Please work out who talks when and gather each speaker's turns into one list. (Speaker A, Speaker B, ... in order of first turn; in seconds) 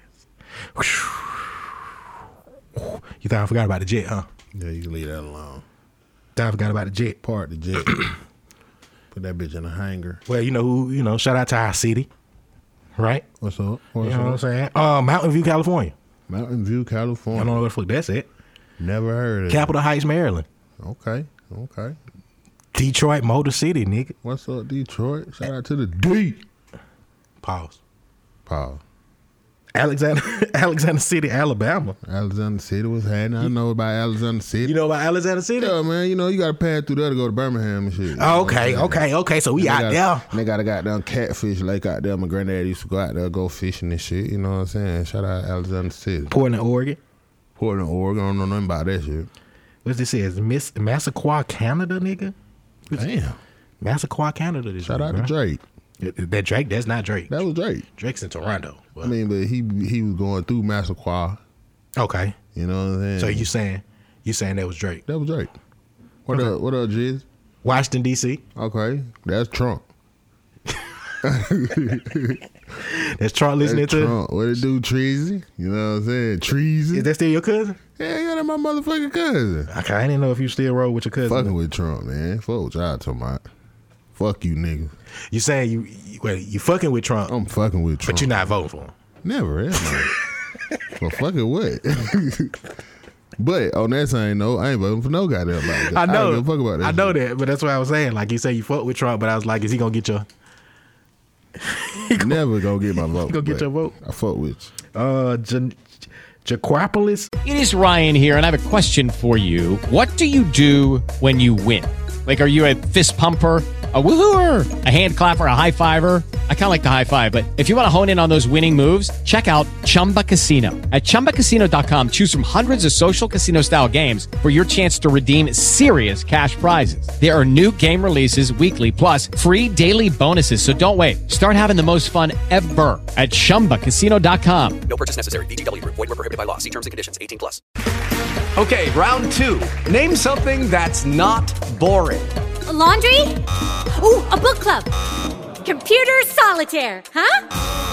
Speaker A: 0.8-1.7, 2.8-4.3, 6.4-7.2, 10.3-12.1, 13.0-13.2, 14.0-15.9, 17.3-18.3, 19.5-20.5, 22.7-24.1, 27.4-27.8, 29.8-32.0, 34.6-35.8, 38.2-40.3, 46.3-47.0, 49.9-52.3, 53.8-55.3, 56.0-57.4, 58.0-59.1, 62.0-62.4, 63.2-65.0, 67.6-68.4, 72.8-74.2, 76.9-77.8, 79.7-81.5, 85.3-87.3, 88.0-88.9, 95.7-100.3, 101.6-103.9, 105.0-105.8, 106.5-107.3
Speaker B: 4.5-5.7, 7.2-8.1, 9.1-10.2, 13.4-14.4, 16.3-17.6, 18.8-19.7, 20.8-22.0, 24.2-26.4, 28.5-28.8, 32.0-34.8, 35.6-46.4, 47.6-49.3, 52.9-53.4, 54.8-55.6, 57.3-57.9, 59.0-61.4, 62.5-63.5, 65.1-65.5, 66.3-67.2, 68.5-69.8, 71.2-72.4, 73.6-77.1, 78.0-79.7, 81.3-83.4, 84.2-84.9, 87.3-88.5, 89.2-90.1, 91.0-92.6, 93.4-97.2, 102.2-104.7
Speaker C: 107.5-134.8
Speaker D: 134.8-137.6
Speaker E: 138.6-142.3
Speaker F: 142.7-143.4, 143.9-144.9, 145.6-147.4